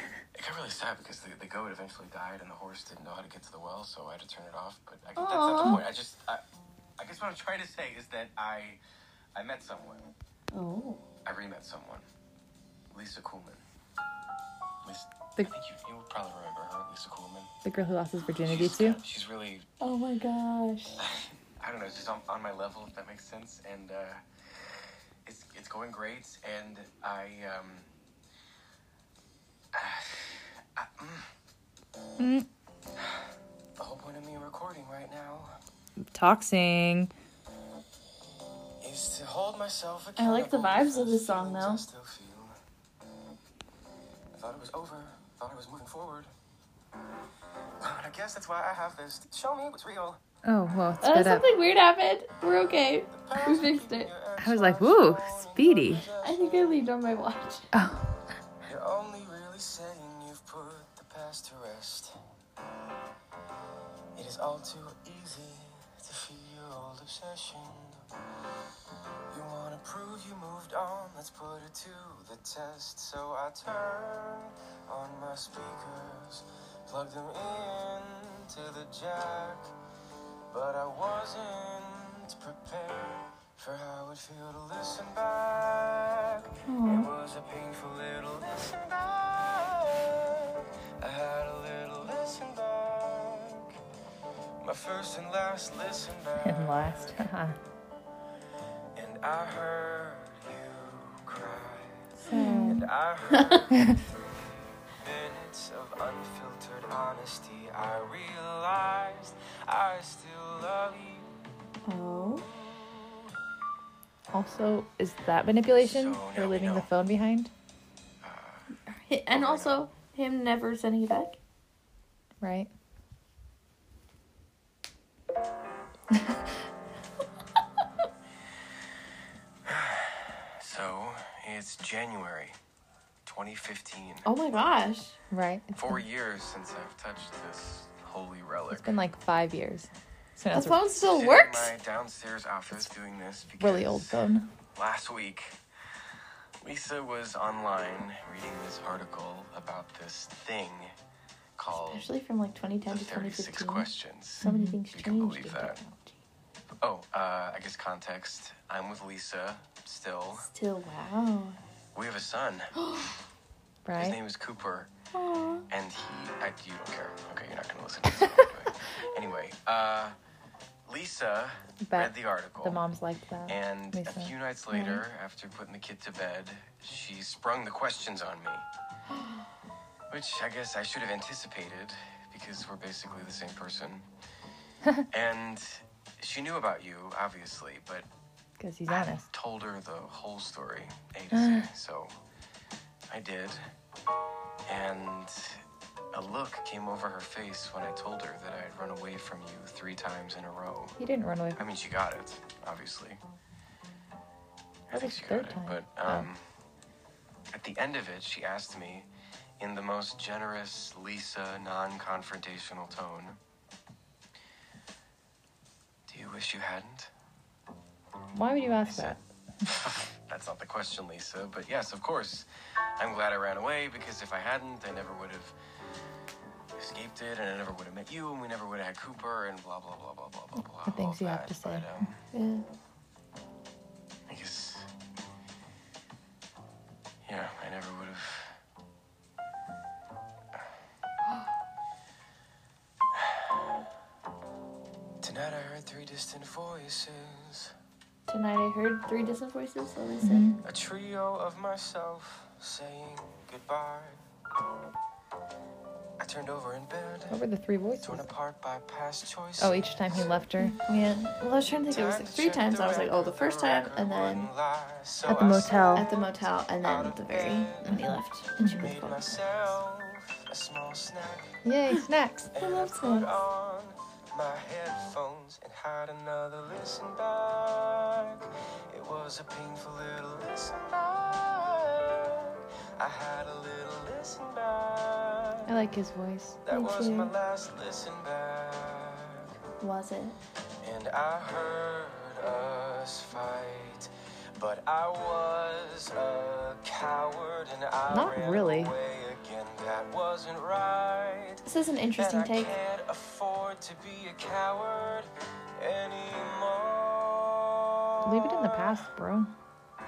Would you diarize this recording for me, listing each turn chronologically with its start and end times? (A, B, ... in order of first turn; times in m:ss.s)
0:00.3-0:06.4 A
0:05.2-0:05.8 B
0:07.0-0:08.8 A
0:09.3-0:10.1 A
0:10.5-0:11.0 B
0:11.2-0:12.0 A
0:12.9-0:13.6 A
0:14.8-0:17.5 A
0:17.6-0:19.0 C
0:18.4-0:19.7 A
0:19.8-0:21.0 B
0:21.0-0:27.9 A
0:29.7-0:31.3 A
0:32.2-0:32.5 C
0:33.8-0:35.5 A
0:36.1-0:37.1 C
0:38.8-0:42.6 A
0:40.2-0:41.8 B
0:44.3-0:46.3 A
0:47.8-0:50.2 A
0:50.4-0:51.5 C
0:51.0-0:54.1 B
0:53.1-0:56.7 A
0:54.4-0:56.1 C
0:56.2-0:57.7 B
0:57.7-0:58.1 C
0:58.6-1:02.2 A
1:04.1-1:08.0 A
1:09.3-1:19.7 A
1:20.5-1:33.8 A
1:26.7-1:27.1 B
1:34.6-1:37.2 A
1:36.4-1:37.6 C
1:38.9-1:44.0 A
1:42.2-1:43.6 B
1:42.3-1:42.8 C
1:44.8-1:51.3 A
1:51.8-1:52.4 B
1:54.3-1:57.5 C
1:55.8-1:56.9 A
1:58.2-1:58.7 A
1:58.9-2:01.4 B
1:59.3-1:59.9 A
2:02.4-2:02.7 C
2:06.1-2:06.5 C
2:09.6-2:12.6 A
2:13.2-2:14.3 A
2:14.2-2:15.2 B
2:15.3-2:16.0 C
2:15.8-2:18.9 A
2:18.7-2:20.8 C
2:20.5-2:21.7 B
2:20.9-2:24.2 A
2:23.6-2:24.5 C
2:24.7-2:25.6 A
2:26.6-2:30.9 A
2:31.6-2:32.1 A
2:31.7-2:33.9 B
2:32.9-2:35.8 A
2:34.4-2:34.8 C
2:34.4-2:36.2 B
2:36.8-2:40.5 A
2:40.3-2:41.6 B
2:41.9-2:42.7 A
2:42.8-2:43.2 B
2:43.8-2:44.2 C
2:44.0-2:44.9 A
2:45.1-2:45.6 B
2:45.7-2:50.1 A
2:50.9-2:52.8 A
2:51.8-2:55.0 C
2:53.5-2:58.6 A
3:00.1-3:04.0 A
3:05.1-3:08.0 A
3:08.6-3:09.3 C
3:08.9-3:12.1 A
3:11.3-3:11.7 C
3:13.1-3:13.6 A
3:14.7-3:15.6 A
3:16.1-3:21.0 A
3:21.0-3:21.6 C
3:21.6-3:23.2 A
3:24.9-3:26.4 A
3:24.9-3:26.3 C
3:27.5-3:29.1 A
3:29.6-3:33.4 A
3:36.1-3:37.1 A
3:38.3-3:39.7 C
3:38.8-3:42.4 A
3:43.0-3:45.5 A
3:46.8-3:52.2 A
3:50.8-3:52.1 C
3:52.3-3:52.6 B
3:54.3-3:54.9 A
3:57.2-3:58.6 A
4:05.2-4:07.7 A
4:08.3-4:10.4 B
4:10.2-4:10.6 C
4:10.6-4:14.2 A
4:16.2-4:17.4 A
4:17.3-4:18.3 C
4:18.0-4:20.5 A
4:19.6-4:20.8 C
4:20.6-4:24.5 B
4:21.9-4:31.6 A
4:25.3-4:26.1 C
4:25.9-4:29.4 B
4:27.8-4:28.9 C
4:31.6-4:32.5 C
4:32.5-4:45.8 A
4:32.6-4:33.3 B
4:45.6-4:46.6 C
4:46.6-4:49.5 A
4:46.7-4:47.3 B
4:49.8-4:50.4 B
4:50.8-5:01.6 A
4:58.1-4:58.9 C
5:01.6-5:02.7 B
5:02.2-5:09.0 A
5:08.2-5:09.5 C